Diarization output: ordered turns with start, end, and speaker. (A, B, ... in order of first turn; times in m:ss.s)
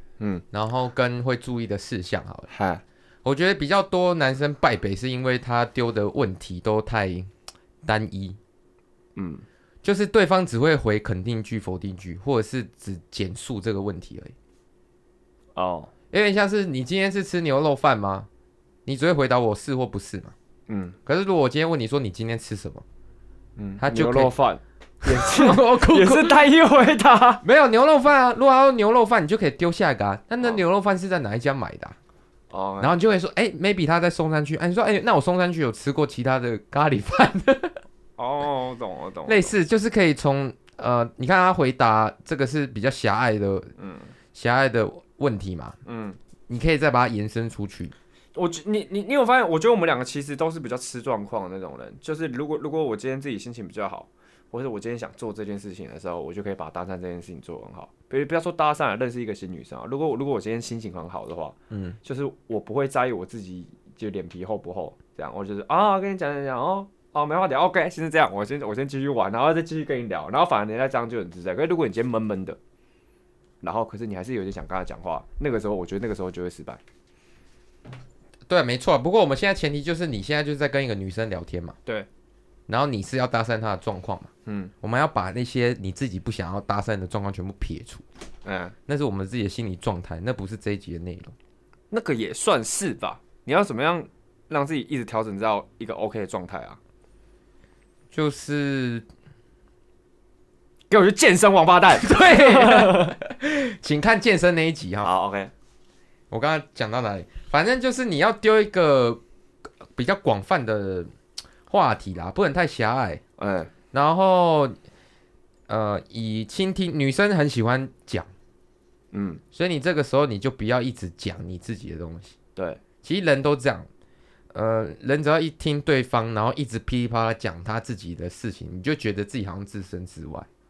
0:00.5-0:02.5 A
0:02.5-0:02.8 B
0:03.2-0:07.3 A
0:07.8-0:08.4 A
0:09.2-0:09.4 B
0:09.8-0:14.3 A
0:15.6-0:15.9 B
0:16.1-0:18.3 A
0:18.8-0:20.3 A
0:20.7-0:21.0 B
0:21.0-0:22.8 A
0:23.6-0:27.4 B
0:23.8-0:24.3 A
0:25.0-0:26.4 A
0:27.4-0:32.0 A
0:32.5-0:33.0 B
0:32.8-0:37.8 A
0:38.2-0:39.6 B
0:39.3-0:43.7 A
0:43.8-0:44.1 B
0:44.3-0:45.8 A
0:45.8-0:46.2 B
0:46.5-0:47.9 A
0:48.3-1:12.6 B
1:01.7-1:02.0 A
1:13.6-1:16.8 B
1:18.5-1:21.8 A
1:22.7-1:24.3 A
1:24.4-1:24.7 B
1:24.8-1:28.0 A
1:28.4-1:28.7 B
1:28.9-1:31.3 A
1:31.9-1:36.8 B
1:38.1-1:39.0 A
1:40.9-1:43.1 B
1:42.0-1:45.1 A
1:45.0-1:45.5 B
1:46.3-1:49.2 A
1:49.9-1:51.1 A
1:51.7-1:53.2 A
1:53.4-1:53.7 B
1:53.9-1:54.8 A
1:55.7-1:58.3 A
1:59.1-1:59.4 B
1:59.5-2:02.4 A
2:02.6-2:02.8 B
2:03.0-2:03.9 A
2:04.5-2:10.5 A